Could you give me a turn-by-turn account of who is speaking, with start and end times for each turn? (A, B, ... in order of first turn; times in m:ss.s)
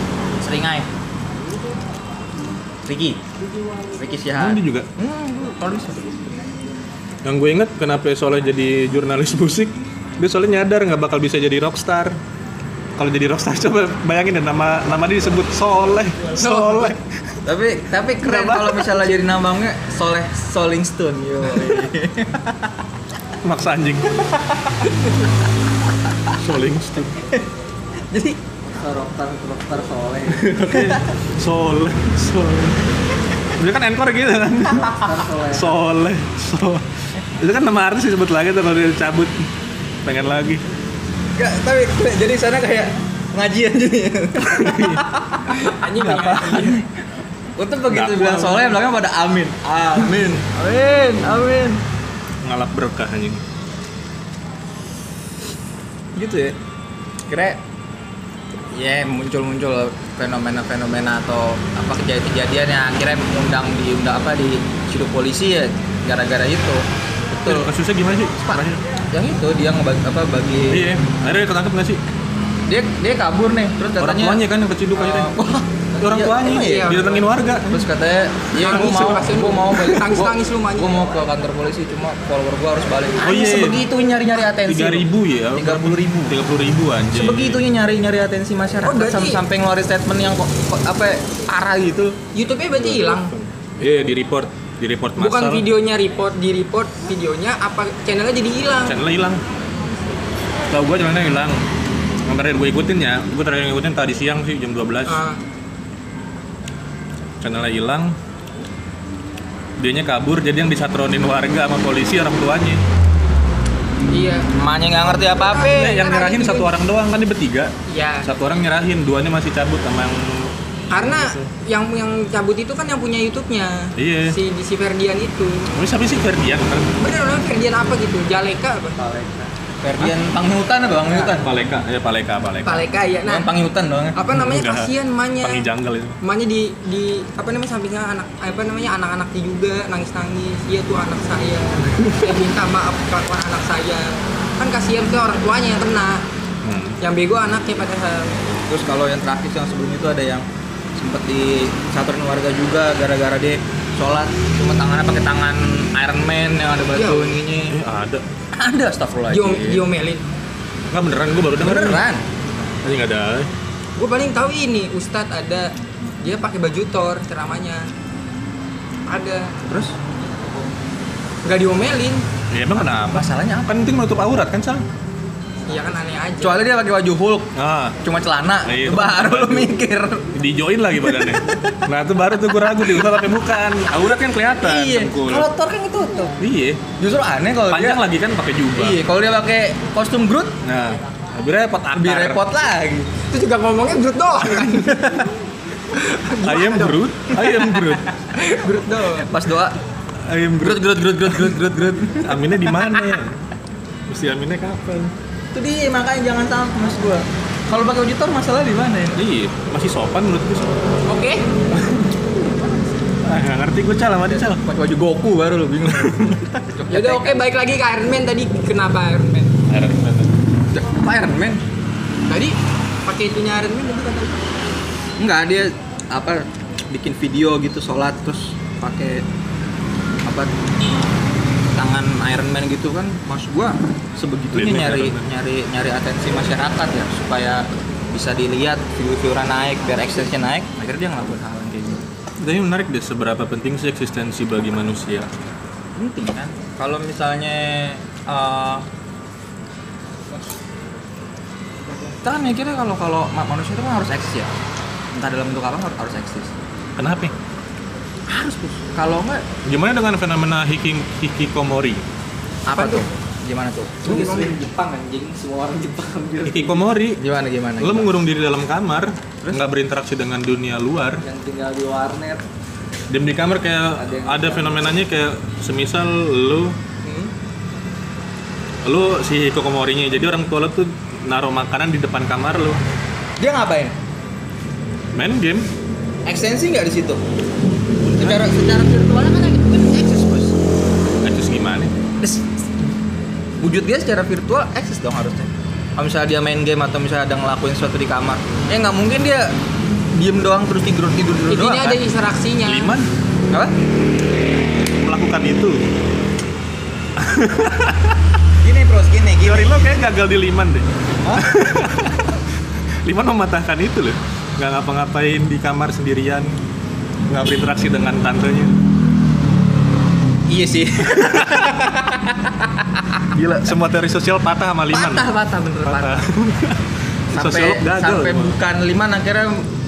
0:00.4-0:00.9 A
0:02.8-0:03.2 A
0:03.9-0:06.2 A
0:04.4-0:04.9 B
0:07.2-0:12.2 B
0:13.0-0:17.4 B
0:16.4-0:16.9 C
0:17.4-0:22.7 A
0:18.2-0:19.2 B
0:23.4-0:24.3 B
0:26.4-0:27.3 B
0:28.1-0:28.4 A
0:28.6-0:30.6 D
0:30.3-0:32.9 B
0:30.7-0:31.0 A
0:33.6-0:34.9 B
0:34.8-0:35.8 D
0:35.5-0:39.5 B
0:40.0-0:40.6 B
0:41.4-0:45.7 A
0:44.4-0:45.0 B
0:45.5-0:46.8 C
0:46.0-0:46.8 B
0:47.6-0:51.8 A
0:47.9-0:48.8 B
0:52.4-0:53.4 B
0:56.2-0:56.6 A
0:57.3-0:57.6 A
0:58.7-1:07.7 A
1:07.4-1:08.8 B
1:08.4-1:10.9 A
1:10.7-1:12.0 B
1:12.7-1:17.1 A
1:14.0-1:15.3 B
1:16.0-1:17.9 B
1:16.4-1:17.3 C
1:17.7-1:26.4 A
1:18.6-1:21.1 C
1:23.2-1:23.9 B
1:24.5-1:27.6 B
1:27.1-1:32.2 A
1:28.8-1:29.4 C
1:32.3-1:33.3 C
1:32.7-1:35.6 B
1:35.2-1:39.0 C
1:38.8-1:39.4 B
1:40.7-1:41.6 B
1:42.2-1:45.2 B
1:45.1-1:45.4 C
1:47.4-1:48.2 B
1:49.8-1:52.8 B
1:54.1-1:54.5 C
1:54.5-1:56.0 A
1:55.2-1:56.7 C
1:55.6-1:57.7 B
1:57.9-1:58.3 C
1:58.2-2:01.5 B
2:00.9-2:05.7 C
2:04.0-2:04.4 B
2:05.7-2:06.9 B
2:07.0-2:09.0 C
2:09.0-2:09.5 D
2:09.8-2:11.5 A
2:11.2-2:12.8 B
2:12.6-2:13.5 C
2:13.2-2:14.2 A
2:14.2-2:15.7 C
2:14.3-2:16.2 B
2:16.2-2:26.2 C
2:21.8-2:22.3 B
2:26.6-2:27.0 B
2:27.0-2:28.4 C
2:28.7-2:37.8 A
2:36.9-2:37.4 C
2:37.7-2:38.2 B
2:38.5-2:39.8 A
2:39.3-2:40.2 C
2:40.9-2:42.0 B
2:41.6-2:42.2 A
2:42.8-2:43.5 B
2:44.0-2:47.9 C
2:49.1-2:49.5 C
2:49.6-2:50.0 A
2:51.4-2:52.2 C
2:52.5-2:54.9 B
2:52.8-2:53.8 A
2:55.7-2:56.6 C
2:56.4-3:00.3 A
2:57.5-2:58.0 B
2:58.6-2:59.7 B
3:00.3-3:05.5 B
3:01.0-3:01.8 A
3:02.6-3:03.3 A
3:03.9-3:06.4 A
3:06.4-3:06.8 B
3:07.0-3:08.0 A
3:07.7-3:09.0 B
3:08.7-3:10.6 A
3:10.6-3:12.4 B
3:11.9-3:13.1 A
3:13.3-3:15.2 C
3:14.4-3:15.2 B
3:15.9-3:17.0 C
3:16.4-3:18.1 B
3:18.3-3:19.3 C
3:19.2-3:19.8 A
3:20.2-3:21.6 B
3:20.6-3:23.1 A
3:22.1-3:23.4 B
3:24.1-3:25.1 B
3:25.5-3:29.2 A
3:29.2-3:30.8 B
3:31.1-3:31.5 C
3:31.7-3:32.1 B
3:33.2-3:34.6 B
3:34.3-3:37.4 A
3:36.9-3:39.5 C
3:39.7-3:40.4 B
3:40.7-3:41.6 A
3:42.3-3:44.4 C
3:45.2-3:49.3 A
3:50.2-3:50.5 A
3:51.7-4:02.1 A
3:54.5-3:55.3 B
4:02.4-4:05.3 B
4:06.0-4:08.8 A
4:12.2-4:14.5 A
4:15.1-4:16.5 A
4:17.0-4:17.3 B
4:18.3-4:19.4 A
4:19.6-4:22.1 B
4:22.6-4:24.5 A
4:22.8-4:23.0 C
4:24.0-4:26.8 D
4:26.5-4:27.2 B
4:27.2-4:28.1 A
4:27.8-4:31.2 B
4:31.2-4:32.5 D
4:33.1-4:36.8 B
4:34.0-4:35.0 D
4:38.8-4:42.8 B
4:43.4-4:44.0 A
4:45.1-4:45.7 B
4:46.2-4:47.2 A
4:48.0-4:48.5 B
4:48.2-4:50.6 A
4:51.2-4:51.9 B
4:52.2-4:52.5 A
4:53.6-4:59.6 A
5:00.1-5:02.0 A
5:01.5-5:02.9 C
5:02.6-5:03.1 B
5:05.0-5:05.8 B
5:07.2-5:08.2 B
5:08.6-5:10.0 A
5:09.4-5:16.6 B
5:11.2-5:11.9 A
5:17.3-5:18.8 B
5:20.5-5:23.2 A
5:21.1-5:21.9 B
5:23.3-5:25.3 B
5:24.9-5:26.3 A
5:25.8-5:28.6 B
5:27.3-5:29.7 A